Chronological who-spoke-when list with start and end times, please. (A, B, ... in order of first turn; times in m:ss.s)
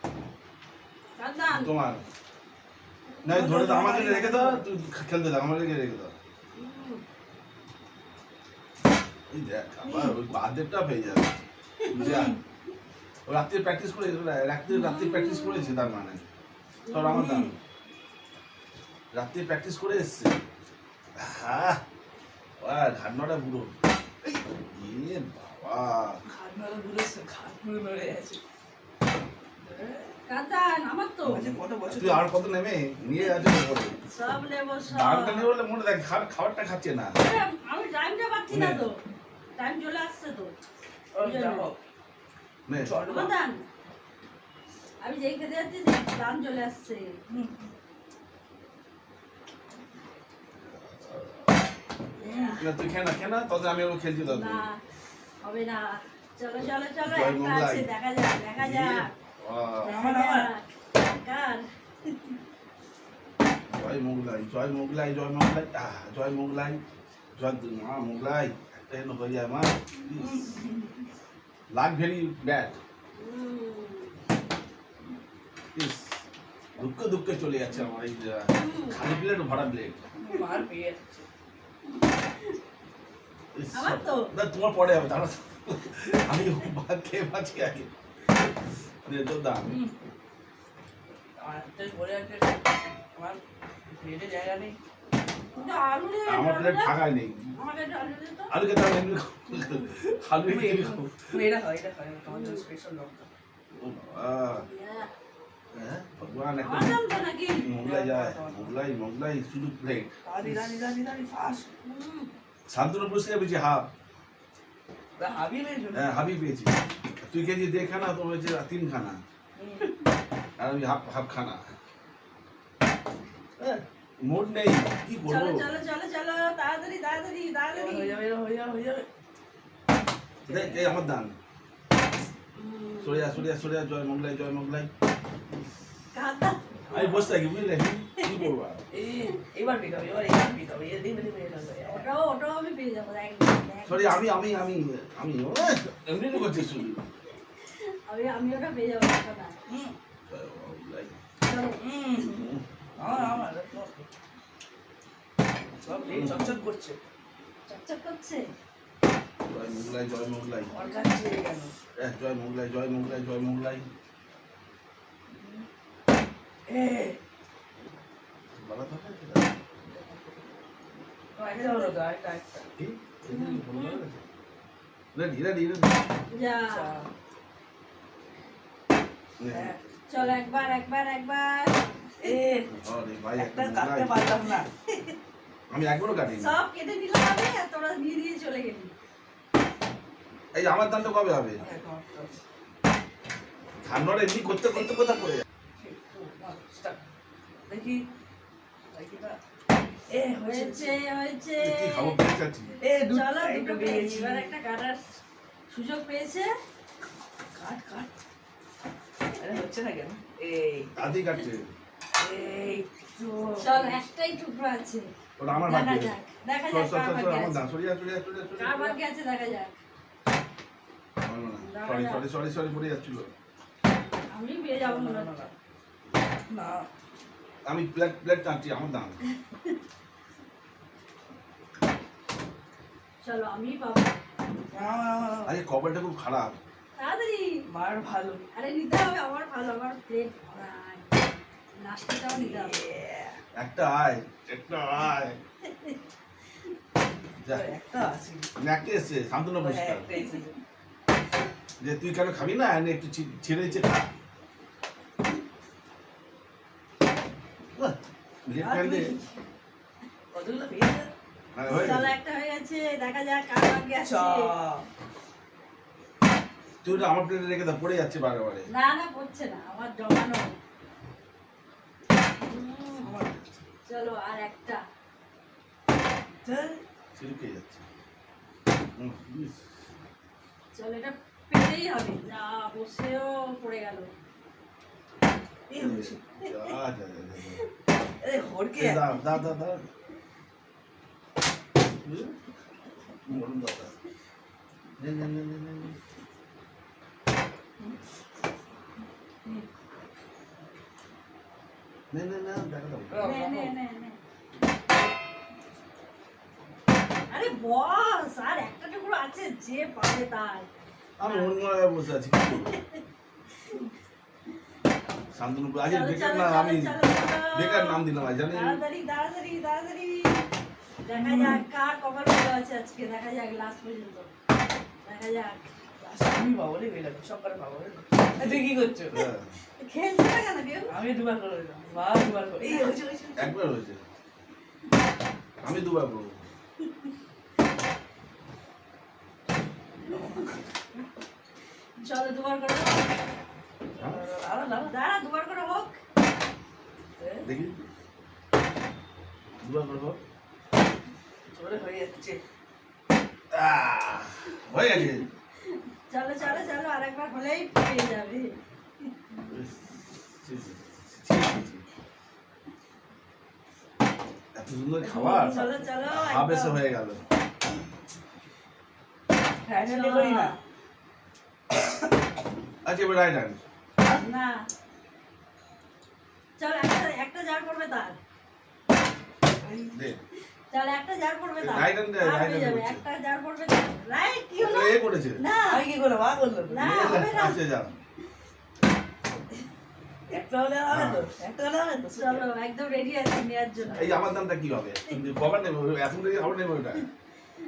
0:01.2-0:01.7 A
0:01.5-0:02.0 B
0:03.2-0:06.1 B
0:03.3-0:04.6 C
0:06.6-0:07.0 A
0:09.3-0:12.4 B
0:09.8-0:10.1 A
0:11.8-0:12.2 A
0:12.0-0:12.4 C
0:13.3-0:16.2 B
0:14.7-0:15.9 A
0:16.8-0:17.3 A
0:16.9-0:17.5 B
0:17.0-0:17.6 C
0:19.1-0:20.4 B
0:21.2-0:21.8 B
0:22.6-0:23.7 B
0:24.3-0:26.2 B
0:26.3-0:28.4 C
0:29.6-0:30.1 C
0:30.3-0:31.5 A
0:31.2-0:32.3 C
0:31.9-0:34.0 B
0:33.2-0:35.5 A
0:34.9-0:37.2 B
0:37.2-0:39.0 A
0:38.5-0:38.9 B
0:39.6-0:40.5 A
0:41.2-0:41.8 C
0:41.2-0:41.7 A
0:42.7-0:42.9 B
0:42.8-0:43.4 C
0:43.0-0:43.6 A
0:45.0-0:47.2 A
0:47.3-0:47.6 C
0:50.6-0:51.5 B
0:52.2-0:52.7 A
0:52.2-0:52.6 C
0:52.6-0:54.7 B
0:54.2-0:54.8 A
0:55.4-0:59.1 A
0:57.0-0:57.9 B
0:58.6-1:00.0 B
0:59.8-1:02.3 A
0:59.8-1:00.5 C
1:03.7-1:06.8 B
1:07.4-1:10.5 B
1:10.2-1:11.1 C
1:11.7-1:12.8 B
1:13.2-1:14.1 A
1:15.8-1:16.2 B
1:16.8-1:20.0 B
1:18.5-1:19.0 A
1:20.2-1:21.2 C
1:22.0-1:22.6 A
1:23.5-1:27.9 B
1:23.7-1:24.3 A
1:29.0-1:29.7 B
1:29.6-1:29.9 C
1:31.4-1:34.8 C
1:35.6-1:37.0 A
1:36.3-1:37.5 B
1:37.6-1:38.6 A
1:38.5-1:41.4 B
1:39.5-1:39.9 A
1:40.4-1:43.3 C
1:42.3-1:42.7 A
1:43.7-1:44.6 B
1:44.5-1:45.1 A
1:45.7-1:47.0 B
1:46.6-1:47.7 A
1:47.6-1:50.7 B
1:47.8-1:48.7 C
1:50.3-1:51.7 C
1:51.8-1:52.3 A
1:52.7-1:53.9 B
1:55.2-1:56.3 C
1:55.9-1:59.2 B
1:59.6-1:59.9 C
2:00.6-2:01.6 B
2:03.6-2:05.7 B
2:05.2-2:08.2 A
2:07.7-2:09.1 C
2:10.4-2:11.1 C
2:10.5-2:11.3 B
2:12.5-2:13.4 A
2:13.0-2:14.9 B
2:16.1-2:16.6 A
2:16.9-2:17.4 C
2:16.9-2:18.8 B
2:18.2-2:18.5 A
2:18.9-2:22.1 C
2:21.8-2:24.1 A
2:23.9-2:27.0 B
2:27.8-2:29.6 A
2:30.3-2:31.2 B
2:31.4-2:31.8 A
2:31.8-2:32.5 C
2:32.2-2:33.5 B
2:33.0-2:34.1 C
2:35.8-2:37.0 C
2:35.9-2:36.5 A
2:36.1-2:36.4 B
2:37.7-2:38.5 A
2:39.4-2:40.8 B
2:40.7-2:41.7 C
2:42.0-2:43.9 B
2:45.3-2:45.7 C
2:46.7-2:47.2 C
2:48.6-2:49.5 B
2:49.9-2:50.5 C
2:51.4-2:52.7 C
2:51.5-2:51.9 A
2:52.8-2:54.2 B
2:53.3-2:54.0 A
2:55.1-2:56.1 B
2:56.3-2:56.9 A
2:56.7-2:57.1 C
2:59.4-3:00.4 B
2:59.5-2:59.8 C
3:00.1-3:02.3 A
3:02.2-3:02.7 C
3:02.7-3:04.2 B
3:03.4-3:04.7 C
3:05.7-3:06.6 B
3:06.4-3:08.9 A
3:10.5-3:11.6 B
3:11.6-3:12.4 C
3:13.8-3:15.4 B
3:14.7-3:15.0 C
3:15.8-3:17.0 C
3:17.7-3:18.0 C
3:18.9-3:19.4 C
3:20.1-3:21.0 C
3:20.4-3:22.2 A
3:21.6-3:22.8 B
3:22.8-3:24.5 C
3:23.1-3:25.2 A
3:25.7-3:26.5 A
3:27.6-3:28.1 C
3:29.4-3:30.9 C
3:31.0-3:31.7 B
3:32.2-3:34.0 C
3:33.6-3:35.1 A
3:35.4-3:39.0 B
3:35.6-3:37.6 A
3:38.6-3:39.8 A
3:41.2-3:43.3 B
3:41.6-3:42.2 A
3:44.3-3:45.3 A
3:44.7-3:45.5 C
3:46.5-3:46.8 C
3:47.7-3:49.2 B
3:53.2-3:54.2 A
3:54.7-3:55.5 C
3:55.4-3:56.6 B
3:57.0-3:57.5 A
3:57.7-3:58.4 C
3:58.5-4:02.8 A
4:02.3-4:03.4 C
4:03.6-4:05.4 B
4:07.5-4:08.5 C
4:08.6-4:10.1 B
4:09.6-4:10.6 C
4:11.8-4:14.1 B
4:17.8-4:19.1 B
4:18.6-4:19.3 C
4:20.3-4:21.1 C
4:21.5-4:22.1 B
4:21.7-4:24.5 A
4:24.0-4:24.8 C
4:26.8-4:28.7 B
4:28.7-4:30.5 A
4:32.4-4:33.1 A
4:33.0-4:33.4 C
4:33.9-4:34.8 A
4:36.4-4:36.8 C
4:37.2-4:37.8 B
4:39.0-4:39.7 B
4:40.7-4:44.1 A
4:45.7-4:46.3 C
4:45.8-4:47.6 B
4:48.2-4:49.3 C
4:48.8-4:49.8 B
4:52.0-4:52.3 B
4:53.2-4:53.9 B
4:55.0-4:56.0 B
5:02.1-5:03.4 B
5:03.1-5:03.7 C
5:03.2-5:04.2 A
5:07.3-5:10.7 A
5:11.2-5:12.8 B
5:11.2-5:11.6 A
5:12.6-5:13.0 A
5:15.3-5:17.0 B
5:15.8-5:20.5 A
5:17.5-5:18.8 B
5:21.0-5:24.3 A
5:21.1-5:21.6 C
5:25.0-5:25.7 A
5:26.0-5:29.3 C
5:29.1-5:29.5 B
5:29.8-5:30.9 A
5:30.9-5:33.6 C
5:32.6-5:32.9 A
5:33.4-5:34.0 B
5:35.6-5:36.3 B
5:40.0-5:40.7 C
5:42.0-5:43.1 A
5:44.0-5:44.9 C
5:44.8-5:46.0 A
5:47.2-5:47.5 C
5:47.4-5:47.8 B
5:49.6-5:50.2 B
5:51.5-5:52.4 C
5:53.5-5:55.2 B
5:56.1-5:58.6 A
5:56.4-5:56.8 C
5:59.5-6:01.8 B
6:04.6-6:07.2 B
6:05.0-6:05.7 C
6:05.3-6:06.8 A
6:09.7-6:10.6 C
6:09.8-6:10.6 A
6:12.8-6:13.6 B
6:14.1-6:14.7 A
6:16.6-6:18.2 A
6:19.6-6:20.0 C
6:19.9-6:20.2 B
6:20.7-6:25.8 A
6:21.6-6:23.0 B
6:24.6-6:25.4 B
6:25.6-6:27.0 C
6:26.7-6:27.6 A
6:26.8-6:27.9 B
6:30.3-6:32.5 C
6:30.9-6:31.3 B
6:32.2-6:34.2 A
6:33.9-6:37.0 B